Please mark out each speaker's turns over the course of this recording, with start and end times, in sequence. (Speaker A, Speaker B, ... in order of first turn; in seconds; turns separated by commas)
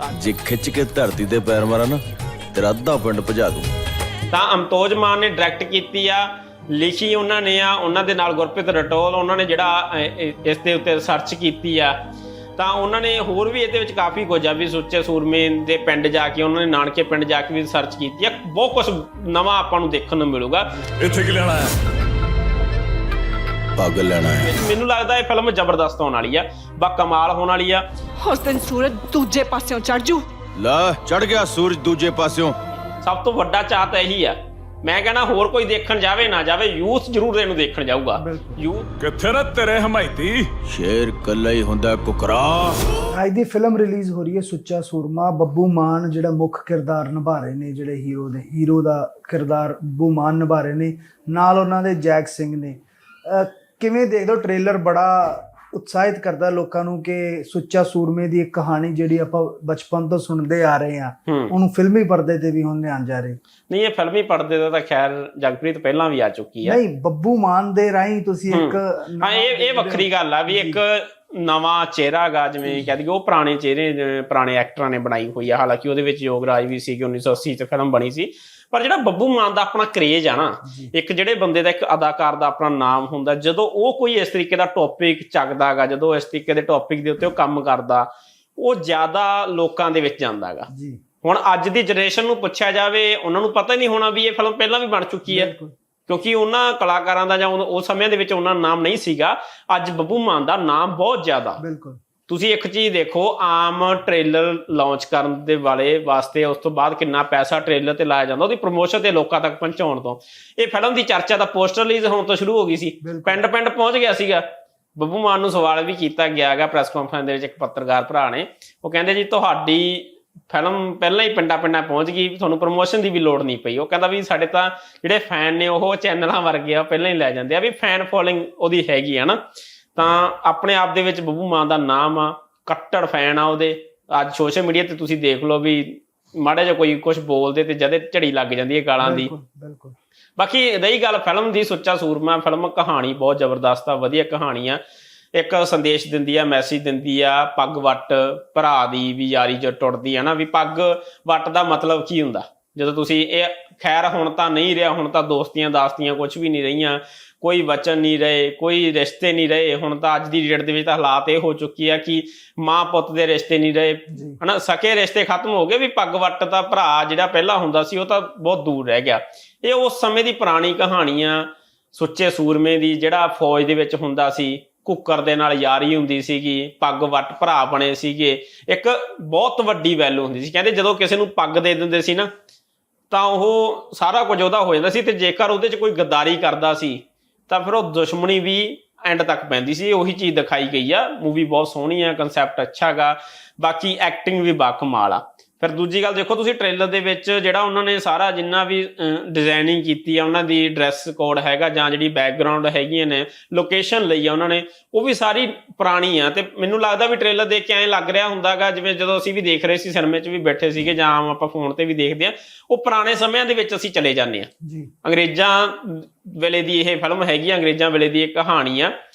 Speaker A: 0.2-2.0, Speaker A: 2.5-3.7, Speaker B: 4.3-11.9, Speaker B: 12.6-20.8, Speaker C: 21.0-21.7, Speaker A: 23.8-24.5, Speaker B: 24.3-27.8, Speaker D: 28.2-30.2, Speaker A: 30.6-32.5, Speaker B: 33.0-38.9, Speaker E: 38.1-38.6, Speaker C: 39.0-40.5, Speaker A: 40.6-42.8, Speaker E: 43.1-63.4, Speaker B: 61.3-61.5, Speaker B: 63.7-66.8, Speaker E: 66.6-70.8, Speaker B: 68.5-90.7, Speaker E: 80.6-80.9, Speaker E: 90.7-91.0, Speaker B: 91.2-95.5, Speaker E: 95.3-95.7, Speaker B: 96.1-101.6, Speaker E: 101.6-102.0, Speaker B: 102.3-114.5, Speaker E: 113.0-113.4, Speaker B: 115.0-129.4, Speaker B: 129.9-139.3, Speaker E: 139.0-139.9, Speaker B: 140.4-144.8, Speaker B: 145.3-182.3, Speaker E: 164.1-164.4, Speaker B: 183.1-214.5, Speaker E: 214.6-214.9, Speaker B: 215.0-218.9